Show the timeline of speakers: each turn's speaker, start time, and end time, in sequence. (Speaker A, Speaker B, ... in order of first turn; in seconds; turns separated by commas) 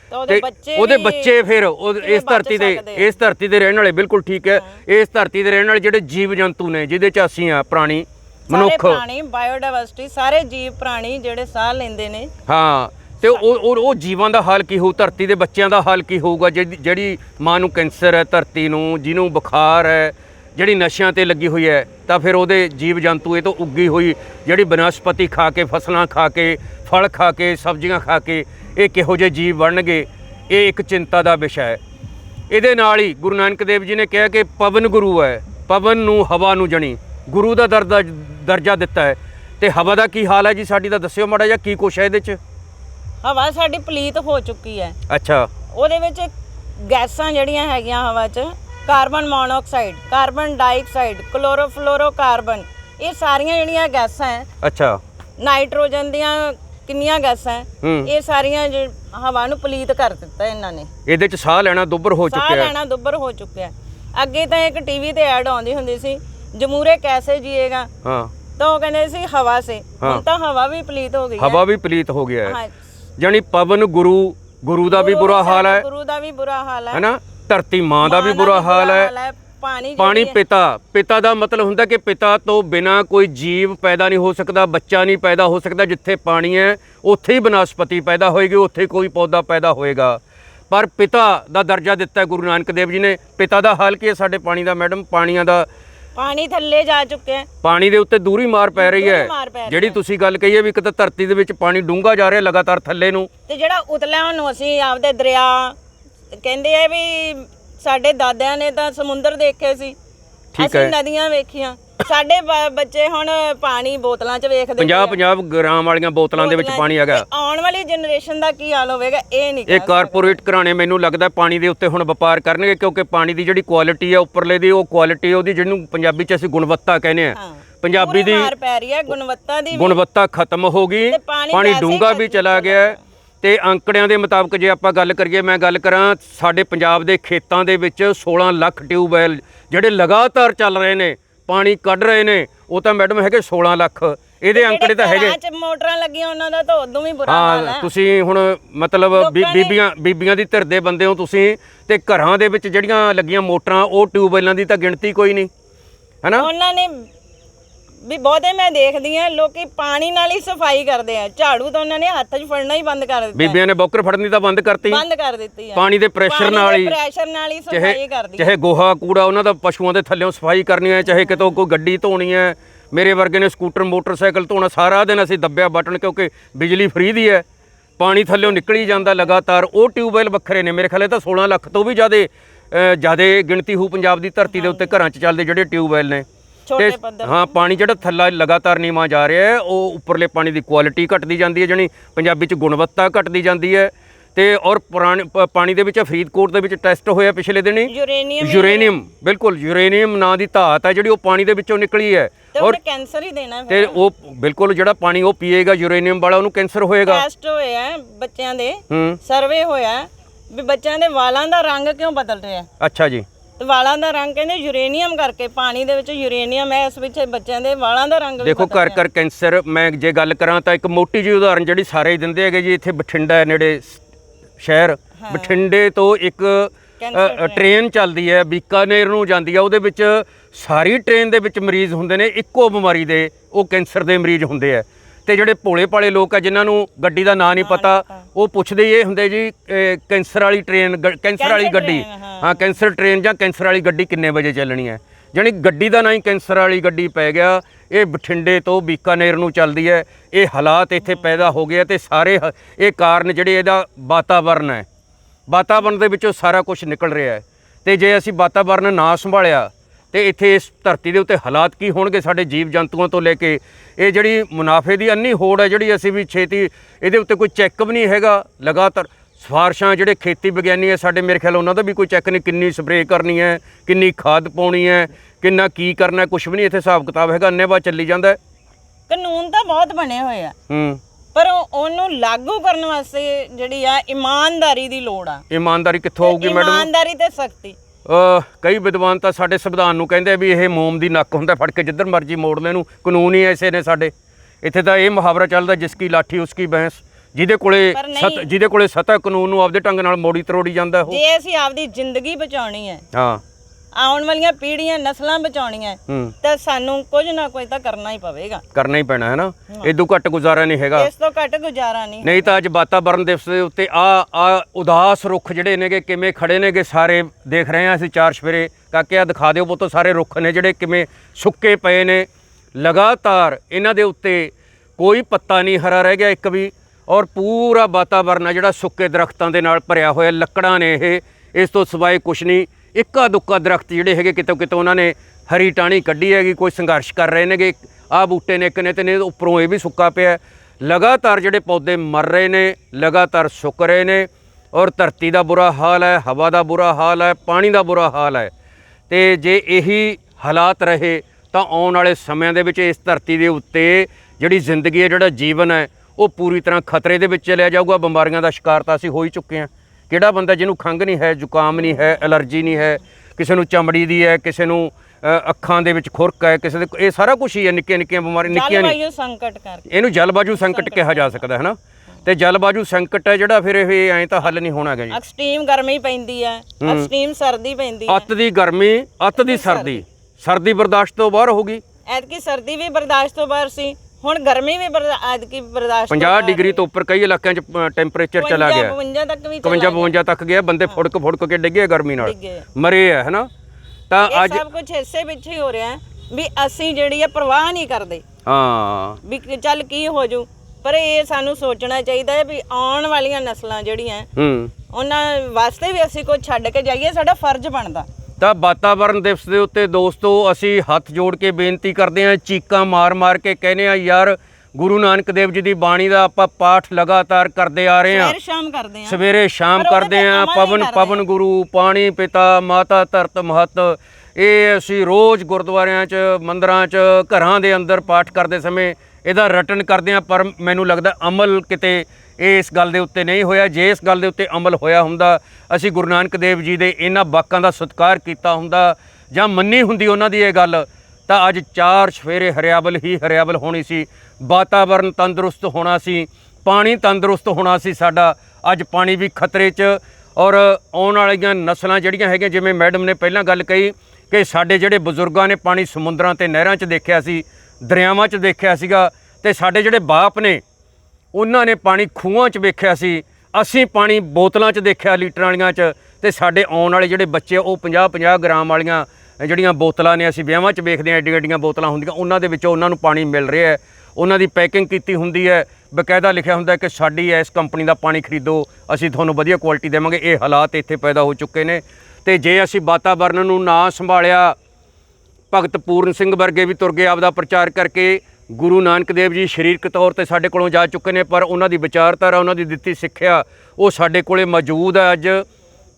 Speaker A: 0.1-1.4, Speaker B: 0.3-9.0, Speaker A: 2.0-3.1, Speaker A: 8.5-12.3, Speaker B: 12.5-31.8, Speaker B: 32.5-42.4, Speaker A: 43.2-45.0, Speaker B: 45.1-45.5, Speaker A: 45.7-54.5, Speaker B: 54.6-55.0, Speaker A: 55.4-60.9, Speaker B: 57.8-58.1, Speaker B: 61.0-62.7, Speaker A: 62.3-67.9, Speaker B: 68.0-68.3, Speaker A: 68.6-71.6, Speaker B: 71.4-72.5, Speaker A: 72.4-72.7, Speaker B: 73.2-75.8, Speaker A: 74.9-77.0, Speaker B: 76.9-79.1, Speaker A: 78.0-80.4, Speaker B: 80.0-95.7, Speaker A: 96.2-97.5, Speaker B: 97.6-103.3, Speaker A: 98.8-100.0, Speaker A: 103.5-105.8, Speaker A: 106.4-110.0, Speaker B: 110.5-110.9, Speaker A: 110.6-115.2, Speaker B: 114.8-117.2, Speaker A: 116.3-120.4, Speaker B: 119.7-128.5, Speaker A: 127.3-130.0, Speaker B: 129.7-145.3, Speaker A: 131.1-133.0, Speaker A: 144.5-147.9, Speaker B: 147.3-155.5, Speaker A: 149.1-149.8, Speaker B: 156.2-156.5, Speaker A: 156.3-157.1, Speaker A: 158.0-163.6, Speaker B: 163.3-165.0, Speaker A: 164.9-168.5, Speaker B: 165.7-166.9, Speaker B: 167.7-177.4, Speaker B: 178.0-186.2, Speaker A: 184.5-184.9, Speaker A: 186.7-187.5, Speaker B: 186.8-202.8, Speaker A: 197.9-198.9, Speaker A: 202.5-204.0, Speaker B: 203.7-207.2, Speaker A: 207.1-212.7, Speaker B: 208.9-209.2, Speaker B: 212.8-213.2, Speaker A: 213.6-219.0, Speaker B: 218.4-224.0, Speaker B: 224.6-254.8, Speaker A: 225.2-225.6, Speaker A: 227.0-227.7, Speaker A: 237.5-238.2, Speaker A: 241.4-242.7, Speaker B: 255.5-278.4, Speaker A: 279.1-280.5, Speaker B: 280.7-281.0, Speaker A: 281.3-285.4, Speaker B: 285.5-286.9, Speaker A: 286.2-287.8, Speaker B: 288.1-301.2, Speaker A: 297.9-298.5, Speaker A: 301.1-303.0, Speaker B: 303.1-303.4, Speaker A: 303.9-308.6, Speaker B: 306.1-306.3, Speaker B: 308.7-311.1, Speaker A: 310.9-312.5, Speaker B: 312.2-348.5, Speaker B: 349.1-368.9, Speaker A: 368.4-369.9, Speaker B: 369.9-375.2, Speaker A: 370.5-371.4, Speaker A: 375.1-378.3, Speaker B: 376.8-377.1, Speaker B: 378.1-381.8, Speaker A: 379.3-380.0, Speaker A: 382.1-386.8, Speaker B: 386.1-388.9, Speaker A: 388.4-390.1, Speaker B: 389.6-393.5, Speaker A: 392.2-392.6, Speaker B: 394.1-394.6, Speaker A: 394.3-398.2, Speaker B: 398.4-399.2, Speaker A: 399.2-404.3, Speaker B: 404.4-404.7, Speaker A: 404.9-408.1, Speaker B: 408.4-418.3, Speaker A: 418.1-419.2, Speaker B: 419.1-460.6, Speaker A: 419.7-421.2, Speaker B: 461.3-484.5, Speaker B: 485.5-495.4